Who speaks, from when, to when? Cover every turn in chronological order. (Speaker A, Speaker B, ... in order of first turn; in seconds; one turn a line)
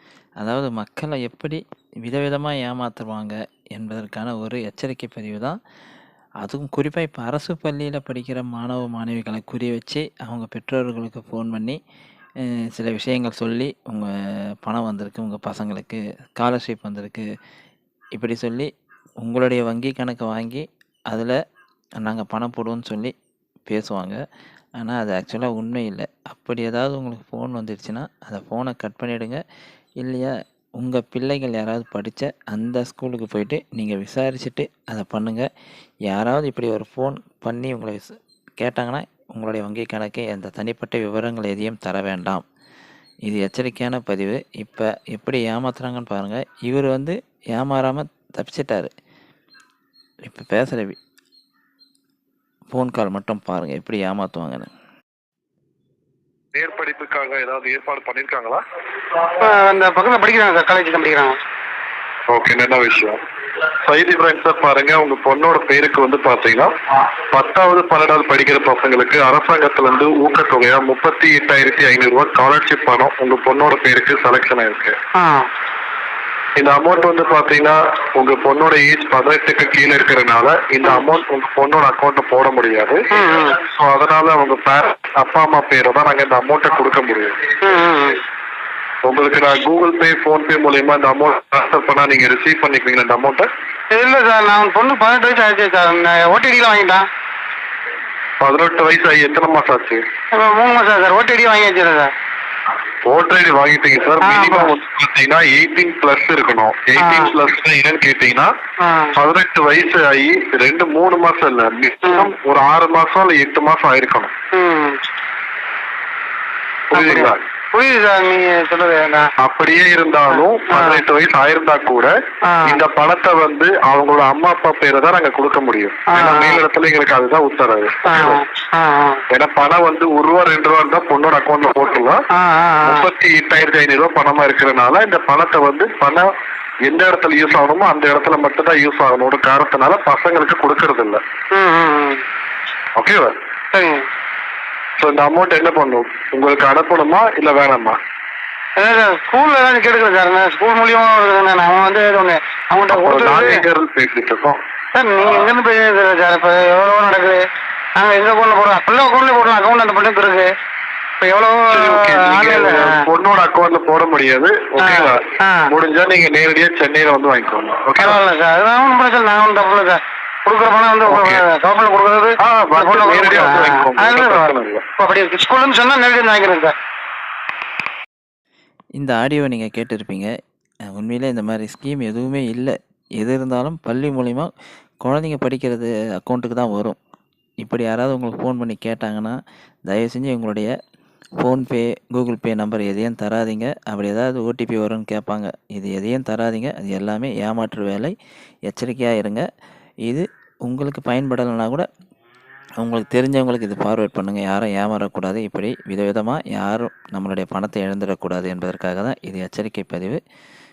Speaker A: 0.4-5.6
Speaker A: 6.4-11.8
Speaker A: 12.7-14.1
Speaker A: 14.6-17.2
Speaker A: 18.1-18.7
Speaker A: 19.2-21.4
Speaker A: 22.0-23.1
Speaker A: 23.7-24.2
Speaker A: 24.8-29.4
Speaker A: 30.0-35.5
Speaker A: 36.1-42.4
Speaker A: 43.3-48.9
Speaker A: 50.2-51.0
Speaker A: 52.7-54.7
Speaker B: 56.5-58.6
Speaker C: 59.3-61.4
Speaker B: 62.3-63.2
Speaker B: 63.8-66.7
Speaker B: 67.3-74.9
Speaker C: 75.1-75.5
Speaker B: 76.6-87.4
Speaker C: 83.1-83.6
Speaker C: 87.6-88.2
Speaker B: 89.0-93.5
Speaker C: 93.9-97.0
Speaker B: 98.4-100.0
Speaker C: 100.3-102.1
Speaker B: 103.0-108.5
Speaker C: 104.2-104.7
Speaker C: 107.0-107.3
Speaker C: 108.8-109.1
Speaker B: 109.2-114.3
Speaker C: 112.0-112.3
Speaker C: 114.5-115.0
Speaker B: 116.9-117.4
Speaker C: 116.9-119.3
Speaker B: 119.4-122.1
Speaker C: 120.3-121.0
Speaker C: 122.4-122.8
Speaker B: 122.6-128.4
Speaker C: 126.1-126.6
Speaker C: 128.1-129.2
Speaker B: 129.3-132.2
Speaker C: 132.3-133.1
Speaker B: 132.8-136.3
Speaker B: 136.8-141.2
Speaker C: 141.5-142.2
Speaker B: 143.0-143.3
Speaker C: 143.7-144.1
Speaker B: 145.0-148.0
Speaker C: 148.8-153.6
Speaker B: 152.9-154.6
Speaker C: 154.9-157.4
Speaker C: 158.0-160.5
Speaker C: 161.2-163.1
Speaker B: 161.7-168.2
Speaker C: 164.8-165.7
Speaker C: 168.0-176.8
Speaker B: 171.1-171.4
Speaker B: 172.4-174.8
Speaker A: 179.0-180.3
Speaker A: 180.9-184.5
Speaker A: 185.0-187.0
Speaker A: 187.6-189.4
Speaker A: 189.9-190.7
Speaker A: 191.4-198.2
Speaker A: 198.7-199.5
Speaker A: 200.1-201.9
Speaker A: 202.8-210.2